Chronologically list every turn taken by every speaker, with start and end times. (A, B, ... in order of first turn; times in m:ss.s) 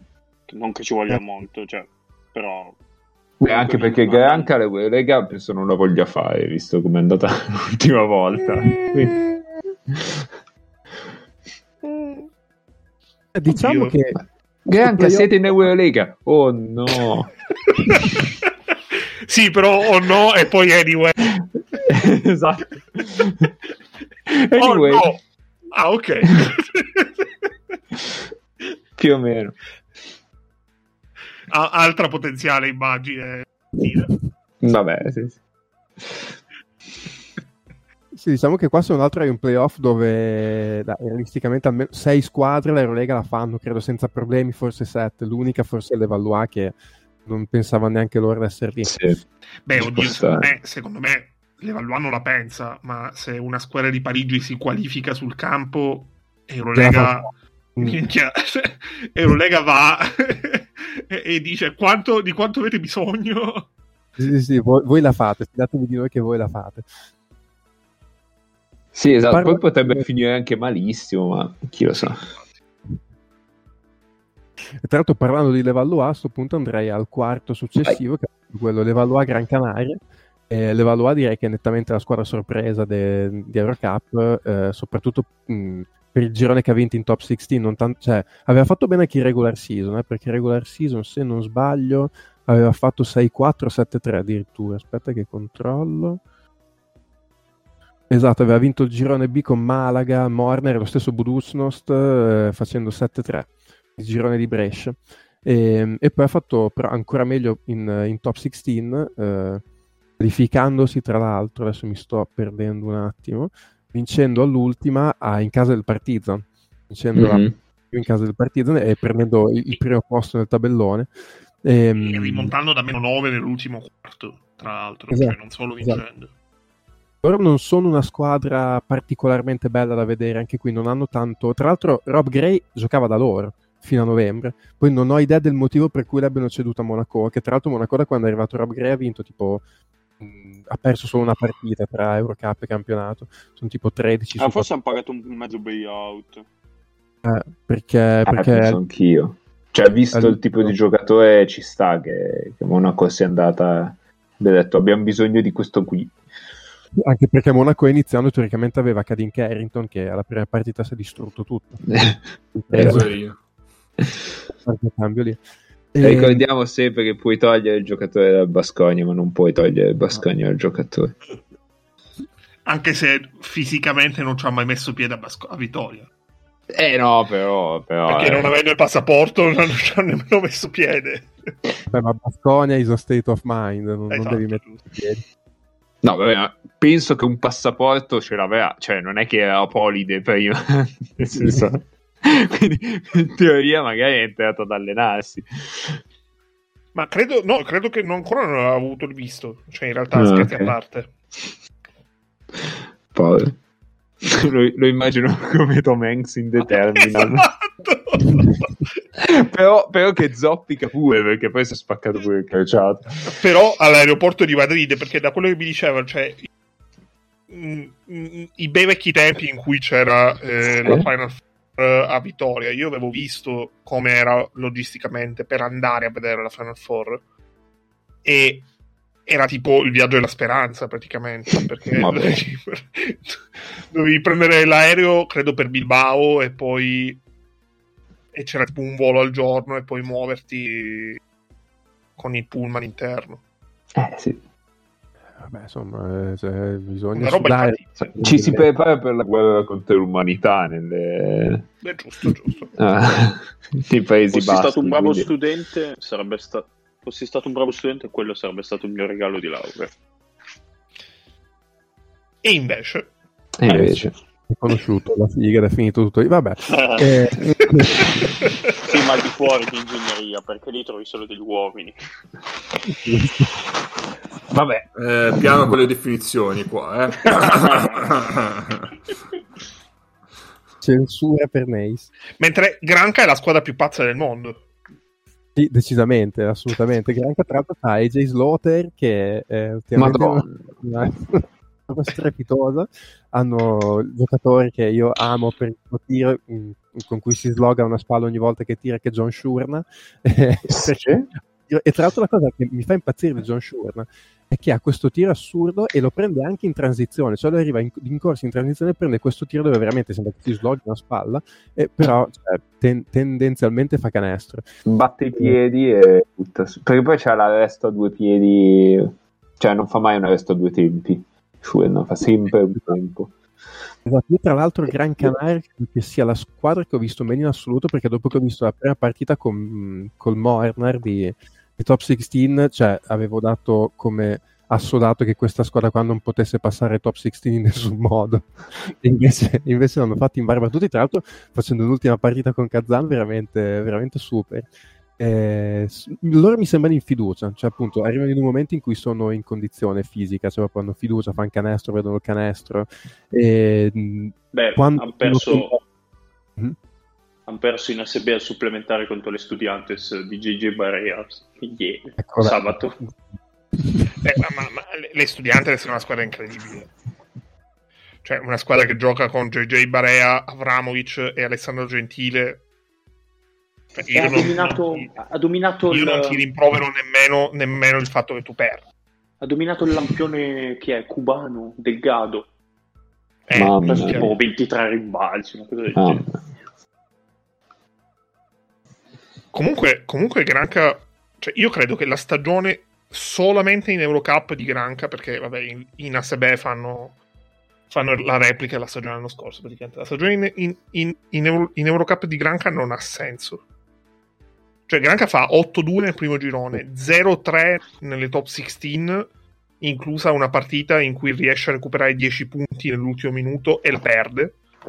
0:00.5-0:02.8 A
0:03.4-0:09.2 B
0:03.4-0:04.5 A
0:11.8-0:12.2 C
0:13.3-0:14.2 D
0:13.5-0:13.9 C
0:14.6-0:17.3 B
0:14.8-0:15.3 D
0:17.8-0:18.2 C
0:19.3-0:21.3 C
0:21.4-0:23.5 B
0:24.3-0:25.1 B
0:24.6-0:25.2 C
0:25.7-0:27.5 C
0:29.0-0:29.6 B
0:31.5-0:34.1 C
0:34.6-0:35.4 B
0:36.0-0:36.3 B
0:38.1-0:48.9 D
0:48.8-0:49.2 B
0:49.6-1:03.6 C
0:49.8-0:50.5 B
0:56.7-0:58.0 D
1:04.2-1:06.9 D
1:08.9-1:12.3 B
1:09.3-1:10.0 D
1:14.8-1:20.0 D
1:20.5-1:36.2 D
1:38.1-1:49.6 D
1:50.2-2:01.1 D
1:57.2-1:57.6 B
2:01.6-2:02.5 D
2:02.0-2:06.3 C
2:05.1-2:06.0 D
2:07.2-2:19.6 D
2:20.2-2:24.8 D
2:24.4-2:26.4 A
2:27.2-2:28.8 D
2:28.2-2:36.2 B
2:30.1-2:30.7 D
2:37.0-2:41.8 D
2:41.9-2:43.0 B
2:42.5-2:43.1 D
2:42.7-2:43.4 E
2:44.6-2:45.4 D
2:45.9-2:46.4 D
2:46.0-2:51.1 B
2:52.6-2:56.1 C
2:56.7-2:58.5 B
2:58.1-3:01.5 C
3:01.9-3:05.2 D
3:04.1-3:04.8 C
3:06.0-3:16.0 B
3:11.3-3:11.6 D
3:16.9-3:21.1 C
3:20.1-3:20.7 B
3:22.6-3:23.6 B
3:24.2-3:27.5 B
3:27.0-3:28.6 C
3:29.2-3:33.4 B
3:33.3-3:36.5 C
3:37.5-3:47.2 C
3:48.2-3:48.7 C
3:49.2-3:53.4 C
3:51.9-3:52.4 B
3:53.9-3:57.2 C
3:58.3-4:01.2 C
4:02.2-4:03.4 C
4:03.9-4:04.4 B
4:05.4-4:08.7 D
4:07.1-4:08.0 C
4:08.0-4:11.7 B
4:11.8-4:12.7 C
4:12.8-4:15.3 B
4:14.3-4:19.9 A
4:22.4-4:23.1 C
4:23.6-4:24.1 B
4:23.7-4:28.0 D
4:26.7-4:27.1 A
4:28.8-4:32.0 A
4:32.9-4:33.5 D
4:34.5-4:34.9 B
4:35.0-4:38.9 E
4:37.6-4:38.0 C
4:40.8-4:42.1 D
4:42.4-4:44.6 C
4:45.6-5:01.0 D
4:50.0-4:50.8 B
5:00.7-5:01.3 B
5:01.7-5:14.6 D
5:14.8-5:23.3 B
5:24.0-5:55.8 D
5:54.5-5:55.8 A
5:57.5-6:03.0 A
6:02.2-6:03.1 D
6:03.8-6:04.1 D
6:04.2-6:06.9 C
6:08.2-6:12.6 C
6:14.0-6:15.1 C
6:14.1-6:16.4 A
6:15.9-6:18.8 C
6:19.4-6:22.5 A
6:23.5-6:24.3 C
6:23.5-6:24.4 B
6:23.8-6:26.2 A
6:25.9-6:26.4 B
6:29.5-6:37.2 C
6:37.9-6:43.6 C
6:44.9-6:49.3 C
6:49.8-6:54.6 C